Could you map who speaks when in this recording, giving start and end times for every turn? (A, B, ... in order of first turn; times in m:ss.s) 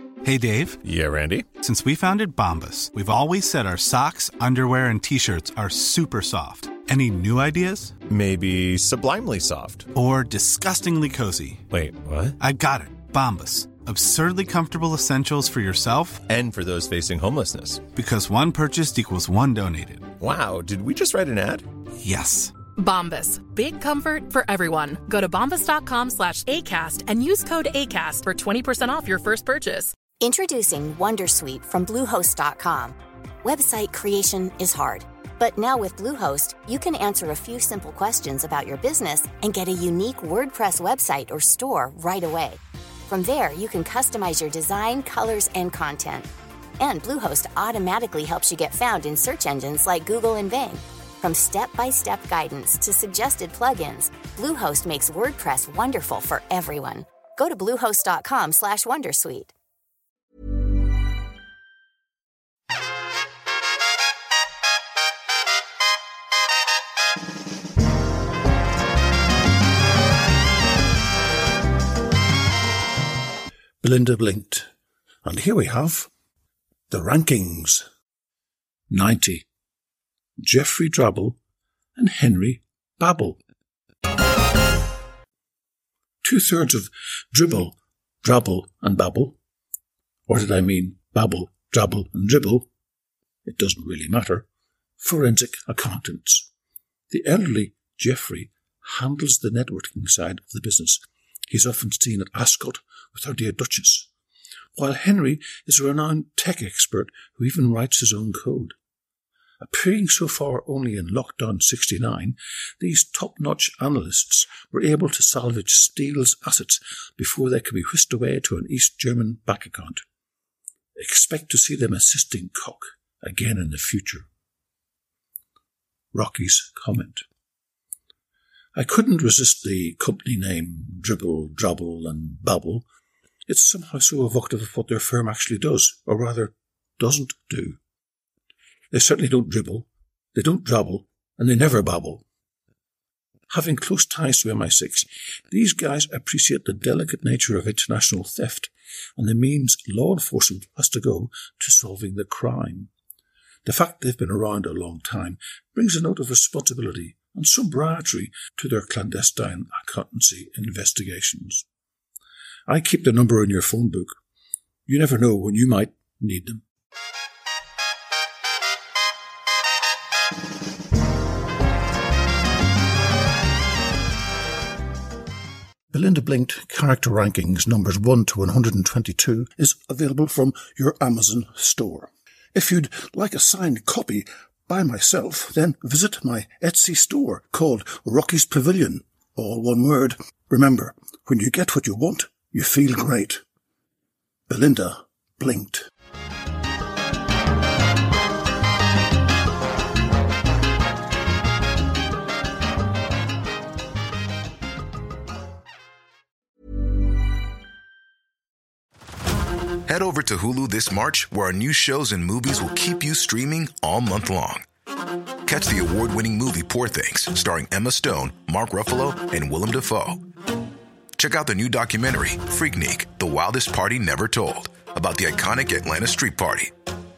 0:00.2-0:00.8 A
0:00.8-0:01.5 B
0:01.6-0:08.0 A
0:08.1-0:09.9 B
0:10.0-0:11.7 A
0:11.7-0:12.4 B
0:12.4-0:16.2 A
0:16.3-0:17.9 B
0:17.9-0:20.1 A
0:20.2-0:21.7 B
0:22.0-0:22.5 A
0:22.8-0:29.9 C
0:30.2-0:46.3 D
0:46.8-0:59.5 D
1:13.8-1:14.7 E
1:15.2-1:16.1 E
1:16.9-1:17.8 E
1:18.9-1:19.4 E
1:20.4-1:21.4 E
1:22.0-1:23.4 E
1:26.2-1:29.4 E
1:30.3-1:32.7 E
1:33.5-1:34.5 E
1:35.0-1:36.5 E
1:37.1-1:44.1 E
1:44.8-1:48.8 E
1:49.6-2:00.0 E
2:01.0-2:04.3 E
2:06.1-2:07.2 E
2:08.8-2:12.9 E
2:13.5-2:17.8 E
2:18.9-2:22.2 E
2:23.5-2:32.9 E
2:33.6-2:41.7 E
2:42.7-2:44.1 E
2:44.9-2:46.6 E
2:55.9-3:13.4 E
3:14.5-3:15.8 E
3:29.9-3:34.6 F
3:35.5-3:40.2 F
3:41.2-3:46.7 F